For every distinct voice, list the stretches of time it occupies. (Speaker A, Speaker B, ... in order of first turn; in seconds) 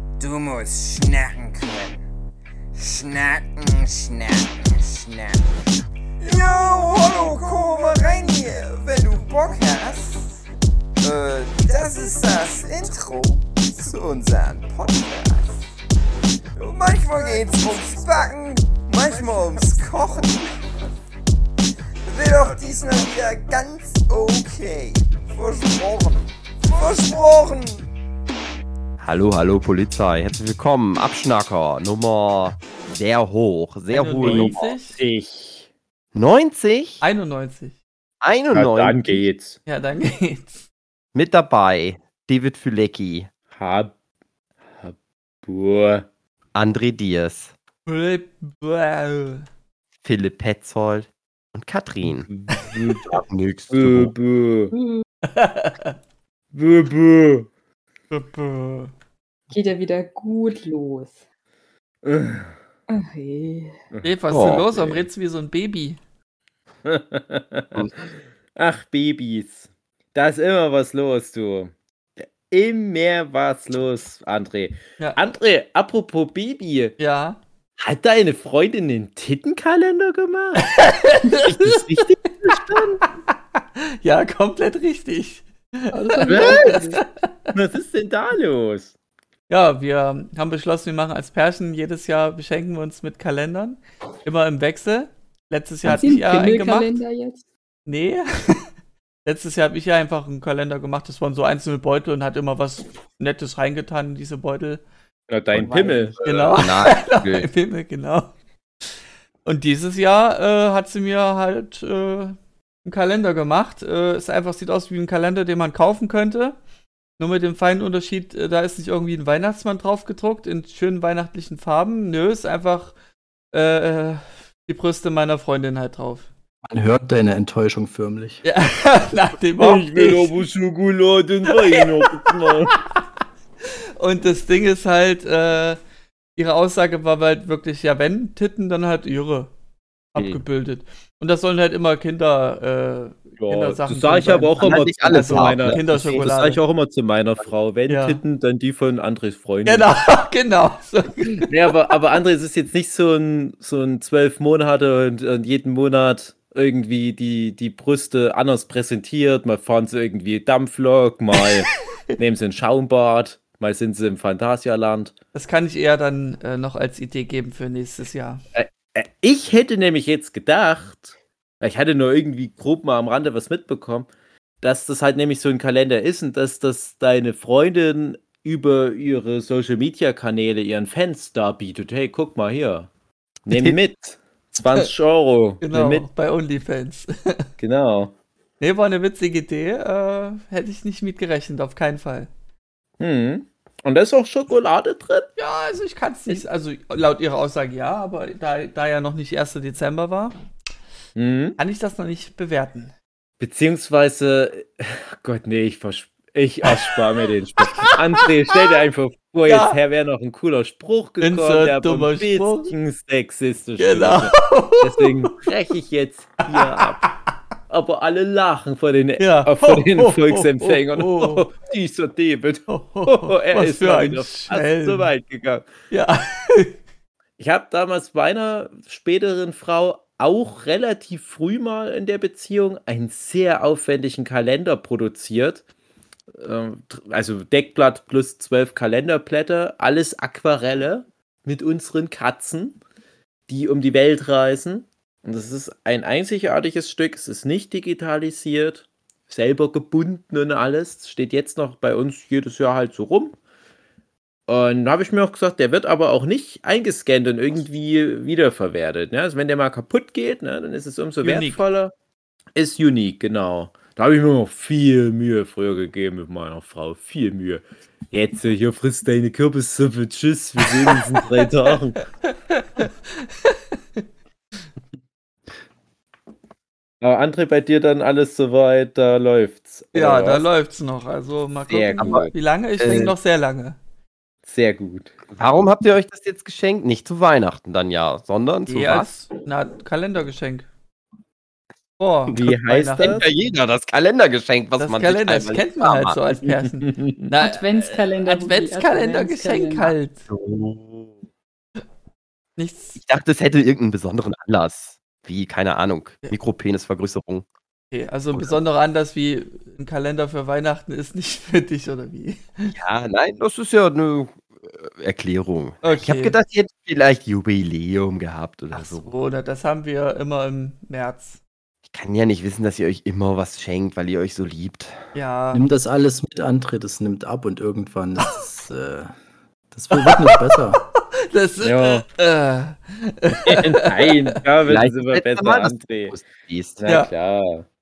Speaker A: 0.2-2.1, 2.8-5.4, 6.2-10.4, 11.0-15.7, 16.6-20.5, 22.1-27.9
Speaker B: 29.0-34.7, 36.1-37.0, 38.2-39.2, 41.1-43.3, 46.5-47.5, 50.0-52.3, 53.0-54.1, 64.3-65.0, 81.5-82.9, 105.5-107.5, 140.2-140.4, 144.6-146.2, 282.0-282.3, 282.8-283.1, 285.3-289.2, 293.0-296.2, 300.3-301.2, 303.0-307.5, 308.3-308.6, 312.7-319.1, 321.9-325.0, 334.7-336.8
Speaker C: 33.9-35.0, 37.0-37.7, 39.7-40.6, 47.9-49.5, 55.3-56.0, 58.1-58.9, 64.0-66.0, 77.0-77.4, 80.7-81.8, 83.6-87.5, 89.5-96.9, 97.9-98.7, 99.2-104.8, 106.2-108.3, 109.5-116.6, 117.2-123.0, 123.5-126.3, 128.4-130.3, 134.0-135.8, 136.4-139.5, 140.1-146.6, 147.9-148.2, 149.7-151.5, 165.3-168.4, 185.6-187.4, 188.6-192.3, 195.4-200.4, 201.6-202.9, 207.7-208.0, 209.5-209.8, 211.2-212.7, 213.8-215.1, 216.6-216.8, 219.2-221.4, 222.7-225.1, 225.9-226.8, 261.2-261.6, 272.2-274.0, 279.9-283.8, 288.7-290.7, 292.0-293.2, 294.8-300.2, 302.6-303.0, 307.9-312.7, 315.8-316.4, 318.7-321.4, 325.1-325.6, 329.9-330.3, 331.3-334.2
Speaker D: 34.2-35.7, 38.5-39.6, 43.5-43.9, 44.7-46.1, 52.1-53.0, 53.7-54.7, 56.5-57.5, 62.0-62.5, 66.8-67.9, 68.6-71.7, 72.2-76.9, 77.8-80.7, 82.5-82.9, 86.3-86.8, 87.5-88.9, 105.3-106.6, 129.6-132.8, 143.4-149.9, 151.5-165.1, 168.6-174.1, 174.6-182.9, 183.5-186.1, 187.6-188.1, 193.0-195.3, 201.2-201.6, 203.4-217.1, 217.7-225.7, 227.4-235.6, 236.4-242.8, 243.5-253.4, 254.5-261.9, 262.6-272.0, 277.0-280.5, 281.7-282.3, 284.4-285.1, 292.3-293.3, 296.8-297.3, 331.6-332.1, 333.4-336.2, 336.8-337.6
Speaker E: 54.7-55.0, 59.5-61.2, 62.9-63.8, 85.9-87.0, 95.9-97.5, 297.4-300.0
Speaker F: 126.7-128.4, 325.5-329.1, 329.7-330.8